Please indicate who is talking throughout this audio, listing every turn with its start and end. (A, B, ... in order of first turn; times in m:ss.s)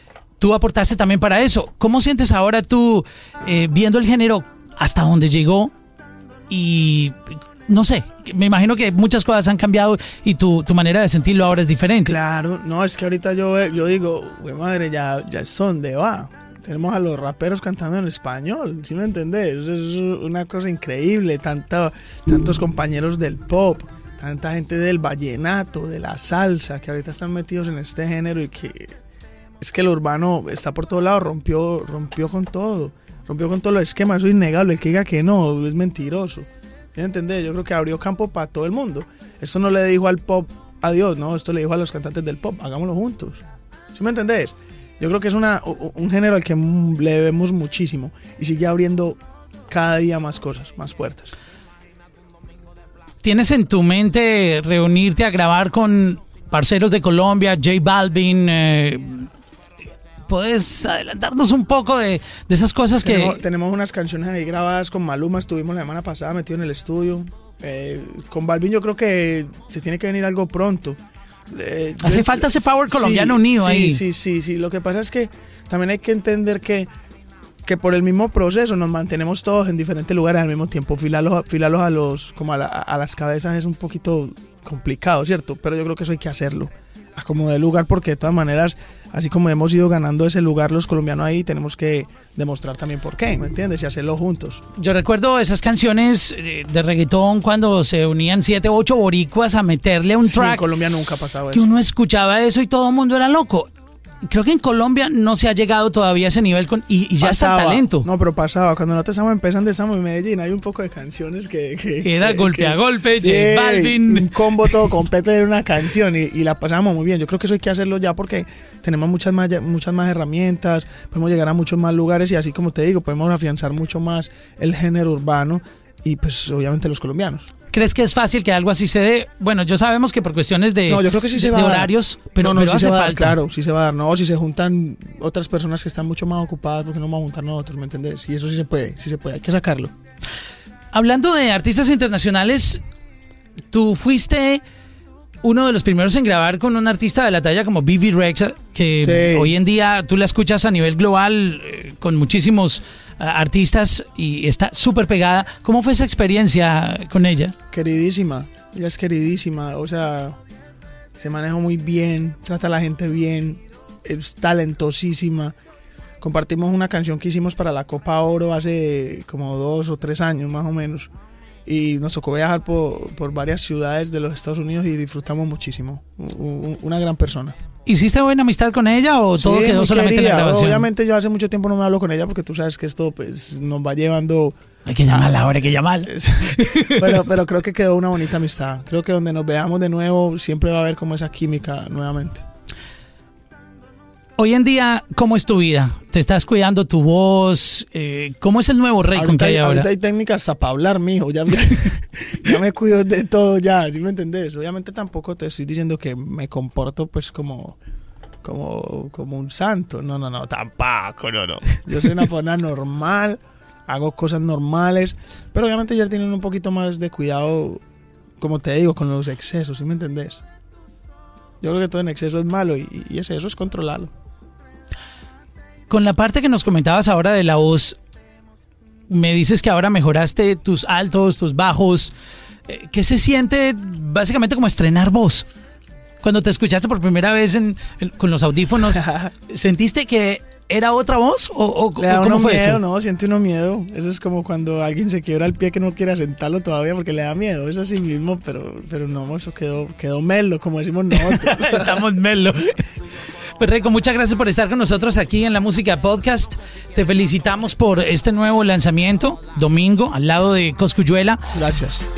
0:00.4-0:05.7 A
0:06.5-0:12.2 A
0:12.0-0:29.0 B
0:29.6-0:51.3 B
0:53.2-0:59.3 A
1:00.3-1:03.4 A
1:03.0-1:16.9 B
1:12.0-1:14.0 A
1:17.6-1:34.7 B
1:34.8-1:40.7 A
1:40.2-1:41.8 B
1:41.5-1:43.7 A
1:44.3-1:48.1 A
1:47.2-2:07.5 B
1:52.0-1:54.8 A
2:07.7-2:13.4 A
2:10.9-2:19.9 B
2:20.9-2:22.8 A
2:23.7-2:24.6 A
2:25.4-2:37.6 A
2:29.0-2:29.6 B
2:37.7-2:40.4 B
2:41.2-2:45.6 B
2:46.2-2:51.1 B
2:51.6-2:57.6 B
2:57.8-3:00.9 A
2:59.4-3:04.6 B
3:04.8-3:07.2 A
3:05.1-3:12.4 B
3:14.4-3:19.9 A
3:19.1-3:27.8 B
3:28.4-3:37.8 B
3:38.4-3:40.4 B
3:41.6-3:44.1 B
3:45.9-3:48.0 A
3:49.1-3:52.1 A
3:52.7-3:55.5 A
3:56.2-4:02.8 A
3:58.8-3:59.3 B
4:02.0-4:12.0 B
4:11.1-4:12.8 A
4:13.6-4:21.4 A
4:21.5-4:22.0 B